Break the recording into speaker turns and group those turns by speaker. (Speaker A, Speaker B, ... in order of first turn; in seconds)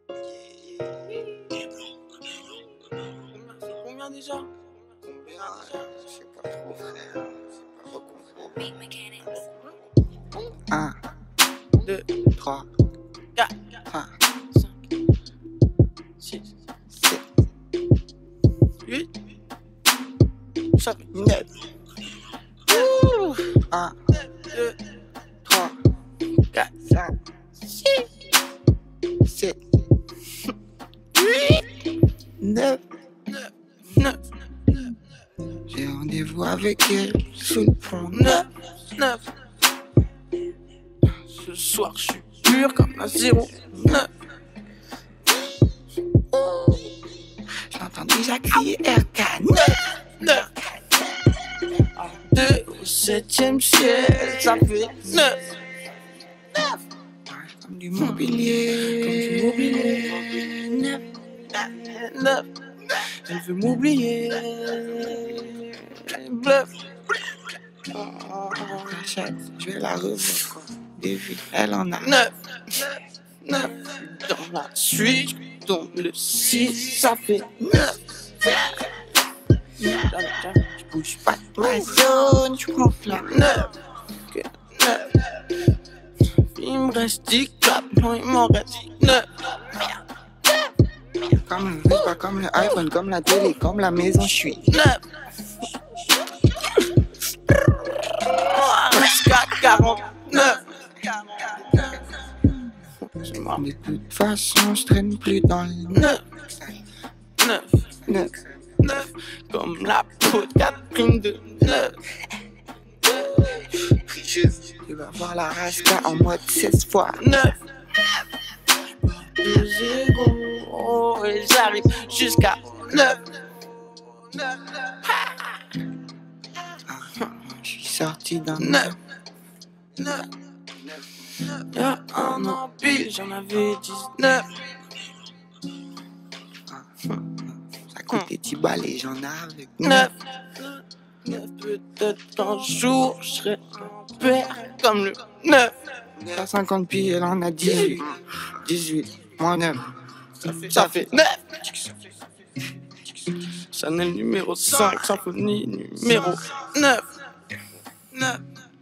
Speaker A: 0.4-1.2, 5.0-9.4, 10.7-11.0, 12.1-12.7, 13.9-14.1, 16.9-17.2, 21.1-21.5, 23.4-24.0, 25.4-25.8, 26.7-27.2, 29.2-29.6, 32.4-32.9, 35.5-38.5, 46.3-51.0, 57.2-61.0, 68.5-72.2, 80.7-83.7, 91.2-94.8, 103.4-106.7, 107.9-108.6, 114.4-117.4, 126.8-129.0, 136.7-140.1, 146.1-150.0, 150.7-151.0
Speaker B: 3.1-4.5, 8.8-9.2, 11.8-12.2, 13.3-13.8, 16.2-16.4, 18.8-19.1, 20.7-21.4, 22.7-23.6, 24.2-24.8, 26.5-27.1, 27.7-28.1, 31.2-31.6, 33.3-34.9, 38.1-39.4, 41.1-44.1, 49.6-50.5, 51.7-55.6, 58.0-69.0, 72.0-79.0, 79.6-80.7, 83.1-85.7, 86.2-90.5, 94.6-96.9, 97.5-103.6, 105.9-106.3, 107.3-107.9, 108.8-112.2, 113.0-114.4, 117.2-118.2, 118.9-125.8, 128.6-129.0, 129.9-130.3, 131.3-135.0, 139.8-146.0, 147.8-148.0, 150.4-152.0, 153.1-157.3, 158.1-158.6